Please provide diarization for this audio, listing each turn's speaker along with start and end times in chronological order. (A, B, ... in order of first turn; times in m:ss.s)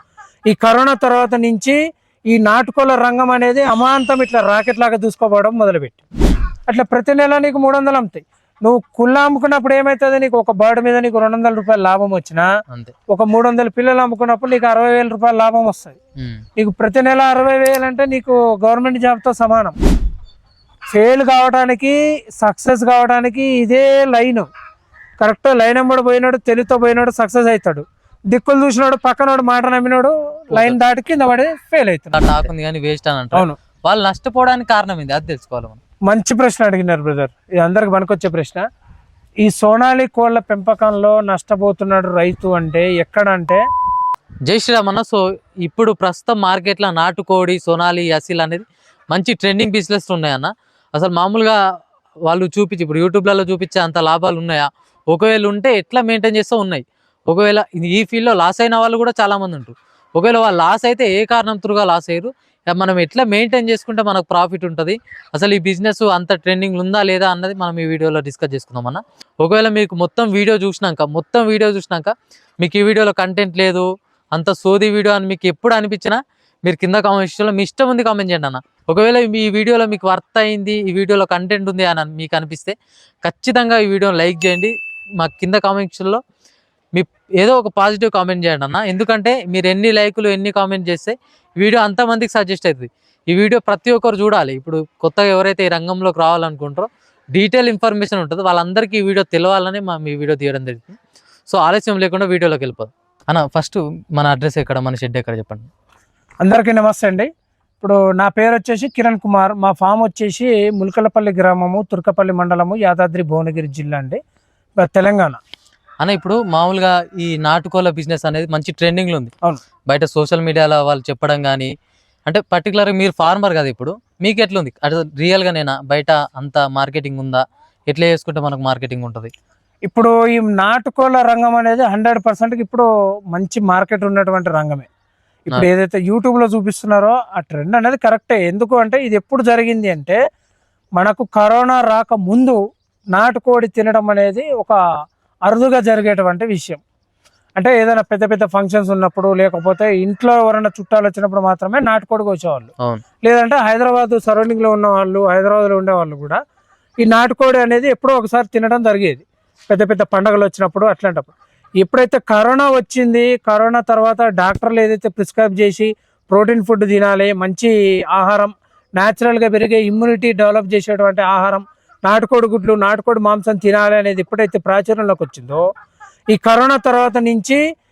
0:00.5-0:01.8 A
0:02.3-0:06.0 A
0:06.7-0:12.4 A
0:13.1-0:16.0 A
0:16.6-0:19.8 A
0:20.9-0:24.5 A
0:25.2-0:32.5 A
0:32.2-0:35.8 B
0:36.1-0:38.6 A
0:39.4-0:43.6 A
0:44.5-0:51.6 B
0:52.3-1:26.2 B
1:26.9-1:45.7 B
1:46.4-1:47.3 A
1:47.8-1:54.2 A
1:54.8-1:55.4 A
1:56.0-1:59.3 B
1:59.9-2:01.7 B
2:02.3-2:09.3 B
2:09.8-2:14.9 A
2:15.5-2:20.2 A
2:21.0-2:22.6 A
2:23.1-2:24.8 A
2:25.5-2:26.8 A
2:27.6-2:32.7 A
2:33.2-2:36.4 A
2:37.0-2:55.6 A
2:56.3-2:57.6 A